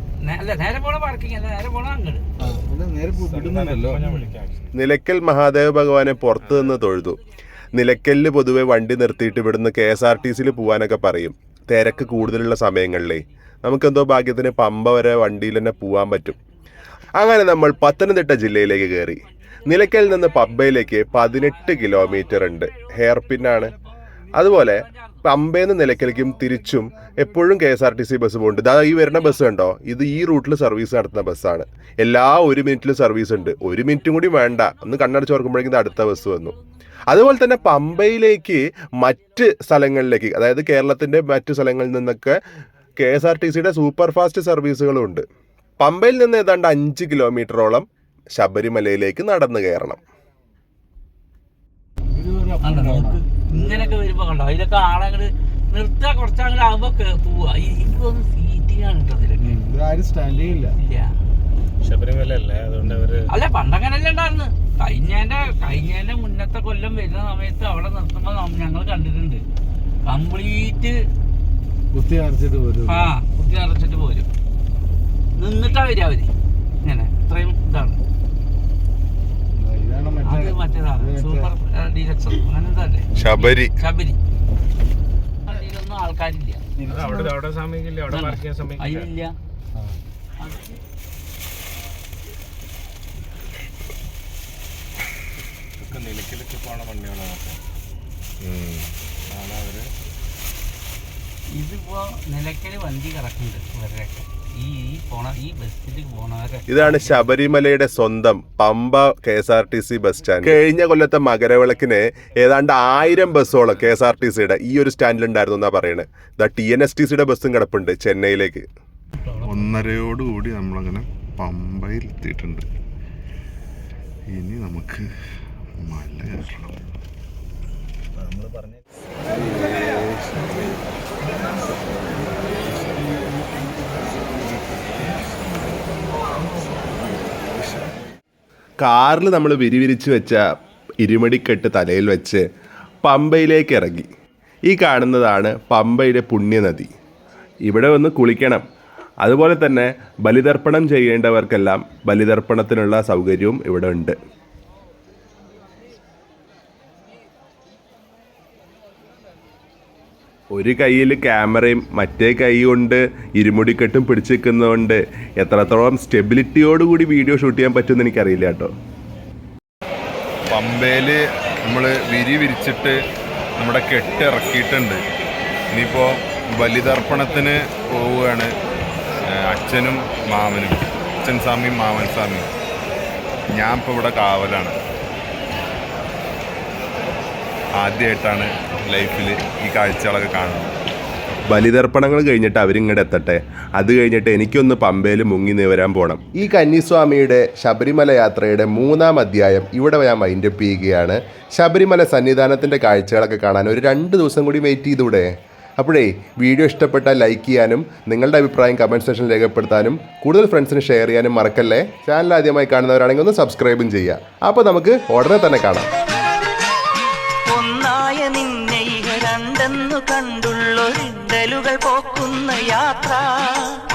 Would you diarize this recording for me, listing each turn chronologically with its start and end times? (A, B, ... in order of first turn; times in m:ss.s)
0:00.2-0:02.3 A
0:02.4-0:04.1 B
0:03.1-0:04.7 C
0:04.8-0:07.2 D
0:07.7-0:16.4 D
0:12.2-0:12.5 A
0:17.2-0:23.7 D
0:19.7-0:23.8 A
0:24.3-0:36.5 D
0:24.4-0:25.3 A
0:29.1-0:29.3 A
0:37.1-0:42.4 D
0:43.0-0:45.2 D
0:45.8-0:50.0 D
0:52.1-0:54.0 B
0:52.6-0:59.6 A
0:59.4-1:00.7 B
1:00.8-1:01.1 A
1:01.8-1:03.3 C
1:03.3-1:09.4 A
1:10.0-1:11.0 A
1:11.9-1:13.1 B
1:12.8-1:14.3 A
1:15.4-1:16.3 A
1:16.8-1:18.0 A
1:19.5-1:21.5 B
1:20.2-1:24.2 A
1:23.2-1:23.7 E
1:25.4-1:26.6 A
1:26.8-1:27.3 B
1:26.8-1:29.1 C
1:28.1-1:29.3 A
1:30.4-1:30.7 A
1:35.8-1:37.6 C
1:38.4-1:38.8 E
1:39.3-1:39.9 C
1:41.5-1:47.3 A
1:46.7-1:58.6 D
1:59.2-1:59.8 A
1:59.4-2:02.6 E
2:04.3-2:05.1 E
2:05.8-2:06.9 E
2:09.5-2:10.7 E
2:13.6-2:13.9 B
2:18.8-2:20.4 D
2:21.0-2:22.4 D
2:23.0-2:24.1 D
2:24.7-2:26.9 D
2:27.7-2:28.6 D
2:29.2-2:34.2 D
2:40.5-2:48.7 D
2:50.5-2:53.0 E
2:53.6-2:55.0 E
2:55.7-2:58.5 E
2:59.3-3:02.5 E
3:03.6-3:04.8 E
3:07.8-3:10.8 E
3:11.5-3:35.9 D
3:37.5-3:43.8 F